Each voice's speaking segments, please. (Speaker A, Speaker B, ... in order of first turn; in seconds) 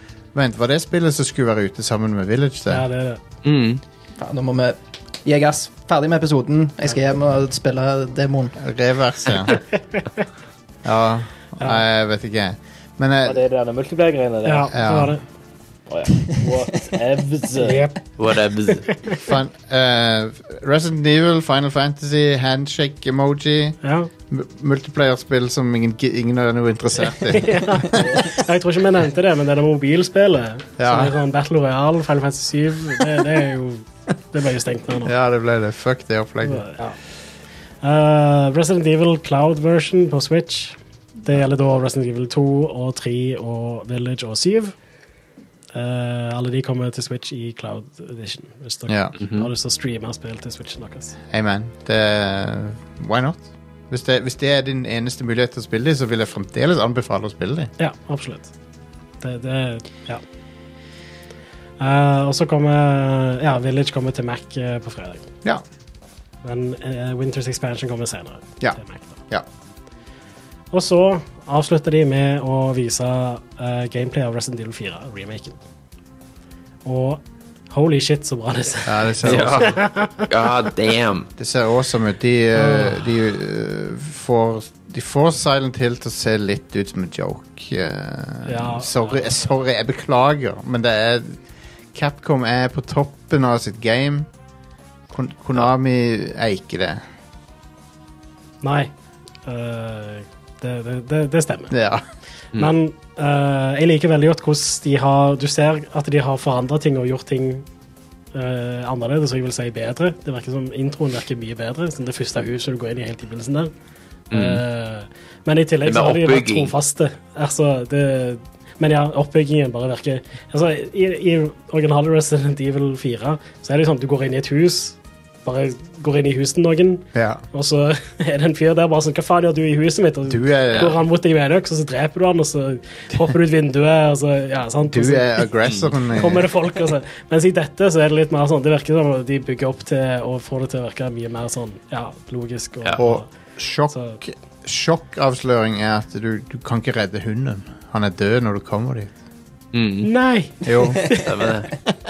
Speaker A: 0.3-2.9, 8.6-9.6, 10.8-13.4, 14.7-15.2, 19.2-28.1, 30.8-31.1, 35.0-36.7, 48.9-49.1, 51.3-57.7, 78.9-79.8, 81.4-91.4, 91.9-94.3, 95.1-97.0, 101.7-102.0, 127.1-127.4, 130.3-131.0, 134.9-136.5, 143.0-149.1, 150.7-151.2
Speaker B: 2.7-3.2, 9.9-10.2, 14.4-15.2, 17.6-19.1, 23.8-24.1, 27.3-35.1, 36.4-37.0, 37.8-44.7, 45.7-51.2, 57.8-58.5, 59.2-60.2, 61.8-65.3, 66.4-69.2, 70.7-75.6, 76.8-80.3, 82.5-83.1, 88.5-89.2, 98.6-98.9, 99.5-101.7, 102.5-107.7, 108.3-113.7, 114.3-135.5, 136.2-143.3, 143.9-144.2, 150.0-151.2
Speaker C: 3.4-3.8, 18.2-18.9, 49.2-49.5, 79.2-81.3, 114.3-114.6, 115.8-116.7, 135.6-135.9, 149.7-150.1, 151.2-151.7
Speaker D: 4.2-8.6, 150.8-151.2
Speaker E: 13.2-14.8, 15.9-17.9